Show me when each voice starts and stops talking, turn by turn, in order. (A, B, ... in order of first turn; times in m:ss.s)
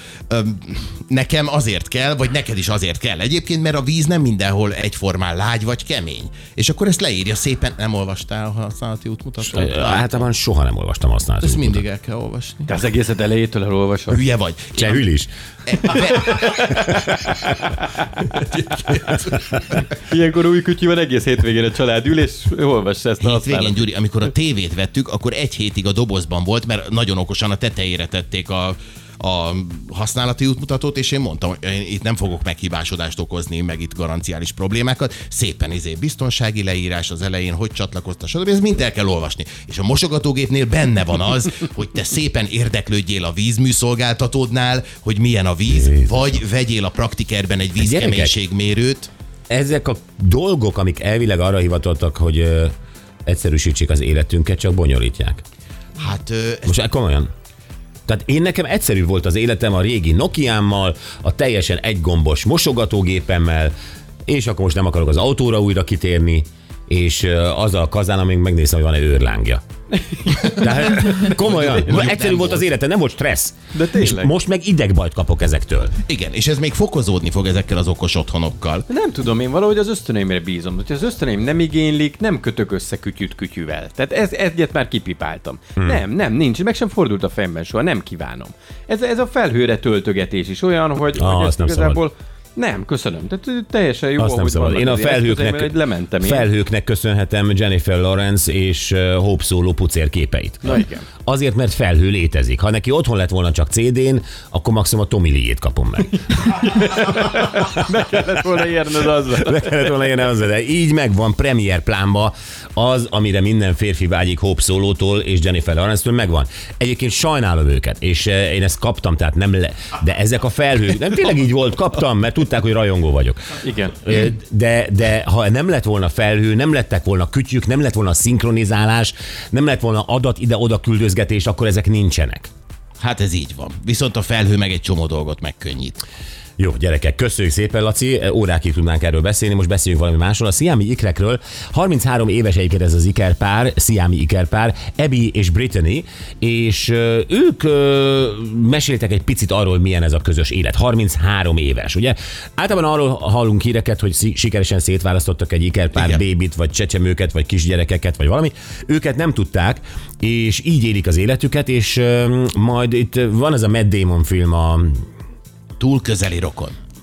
0:00.3-0:10.3 A
0:09.4-0:11.8 B
0:11.4-0:12.7 A
0:12.7-0:14.2 C
0:14.1-0:15.1 A
0:14.8-0:15.3 B
0:15.6-0:17.0 A
0:18.2-0:19.6 A
0:20.0-0:23.8 C
0:23.2-0:49.1 A
0:45.7-0:46.2 B
0:47.8-0:48.4 B
0:49.5-0:52.7 B
0:53.2-0:55.4 B
0:56.0-0:56.8 A
0:56.6-0:57.3 B
0:58.1-1:03.7 B
1:04.3-1:09.6 B
1:10.1-1:12.2 C
1:10.6-1:16.0 B
1:11.4-1:12.6 A
1:13.7-1:14.3 C
1:16.0-1:18.8 A
1:18.9-1:36.5 C
1:31.1-1:32.0 B
1:34.2-1:46.3 B
1:40.6-1:41.1 C
1:46.4-1:49.7 C
1:49.3-2:12.5 B
2:03.6-2:04.0 C
2:13.0-2:16.0 A
2:16.6-2:45.0 B
2:35.9-2:36.2 A
2:45.8-2:46.8 A